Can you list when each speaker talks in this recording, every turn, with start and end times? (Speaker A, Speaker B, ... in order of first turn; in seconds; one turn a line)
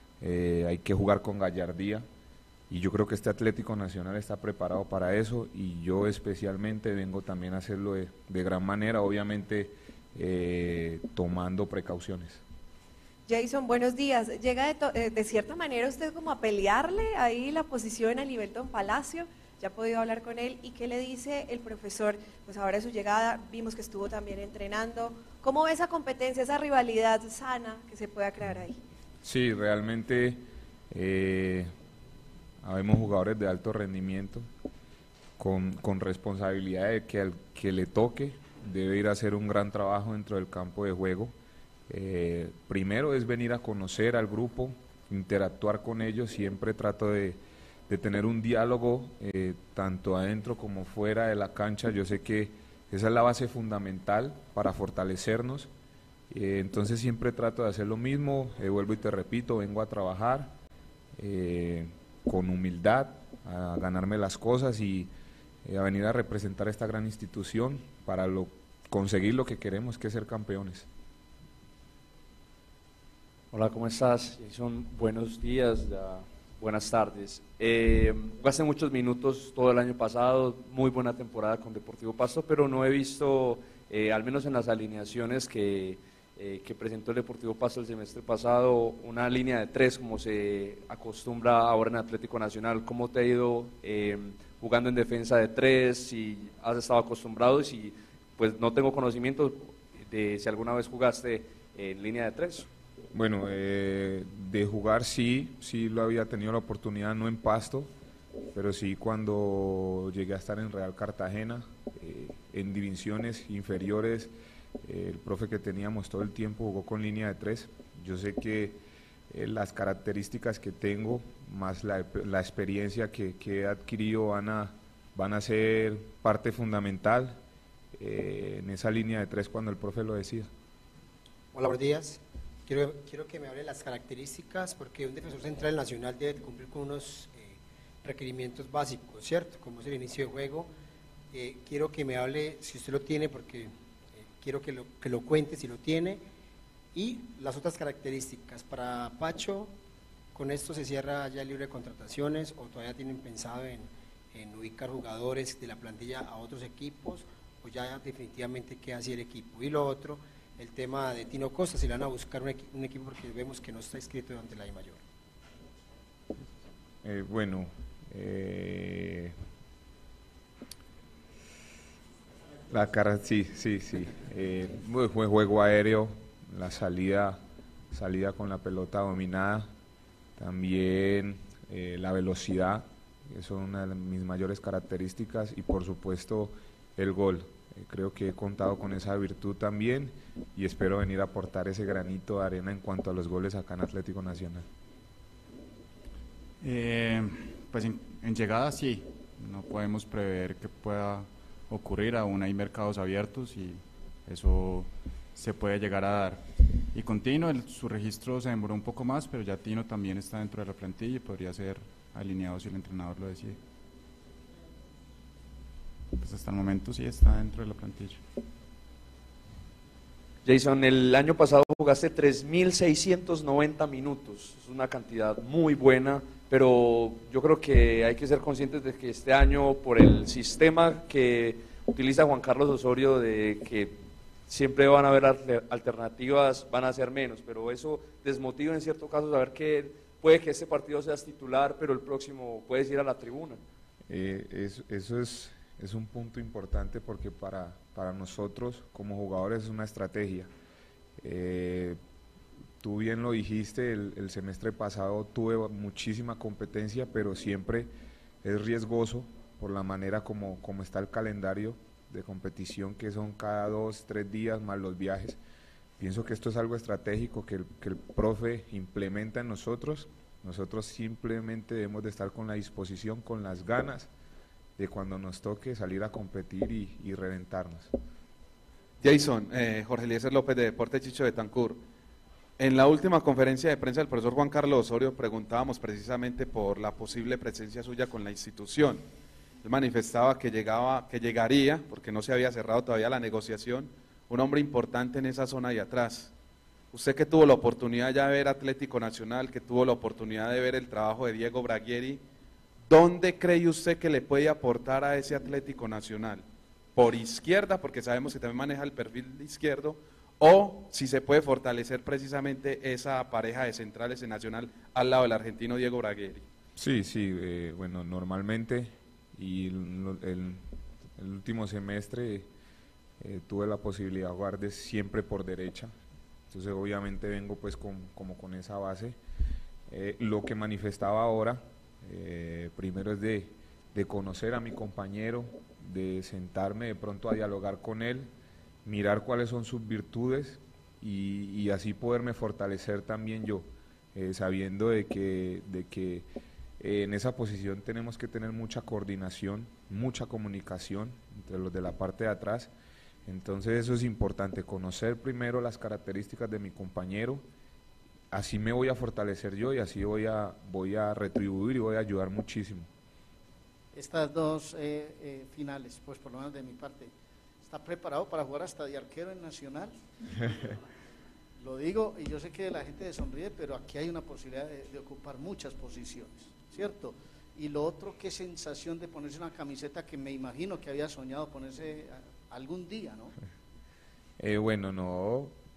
Speaker A: 0.2-2.0
Speaker A: 2.7-12.4
Speaker B: 13.3-28.8
Speaker A: 29.2-31.7
Speaker A: 32.6-34.5
Speaker A: 35.4-41.3
Speaker A: 41.9-55.7
Speaker A: 56.3-60.5
Speaker A: 61.2-65.1
Speaker A: 65.7-70.9
Speaker C: 73.5-102.7
Speaker A: 103.1-107.9
Speaker A: 108.5-114.3
Speaker A: 114.8-127.4
Speaker A: 128.0-130.5
Speaker D: 131.5-140.7
Speaker D: 141.3-146.2
Speaker D: 146.9-149.7
Speaker D: 150.3-165.0
Speaker A: 167.0-169.3
Speaker A: 172.7-177.4
Speaker A: 177.9-179.7
Speaker A: 180.4-194.7
Speaker E: 196.6-213.6
Speaker E: 216.2-218.2
Speaker C: 220.4-243.6
Speaker A: 244.1-250.5
Speaker A: 251.2-252.0
Speaker A: 252.8-257.9
Speaker A: 258.4-265.4
Speaker A: 266.0-274.1
Speaker A: 274.8-277.9
Speaker F: 279.0-281.8
Speaker F: 282.6-289.1
Speaker F: 289.6-296.3
Speaker F: 296.9-302.2
Speaker F: 302.9-316.4
Speaker A: 316.8-320.6
Speaker A: 321.2-322.5
Speaker A: 323.2-325.9
Speaker A: 326.5-329.2
Speaker A: 329.9-338.3
Speaker A: 338.9-346.3
Speaker A: 346.8-352.7
Speaker A: 353.3-357.4
Speaker A: 358.3-362.9
Speaker G: 363.9-367.1
Speaker G: 367.6-370.7
Speaker G: 371.6-383.3
Speaker A: 384.4-385.6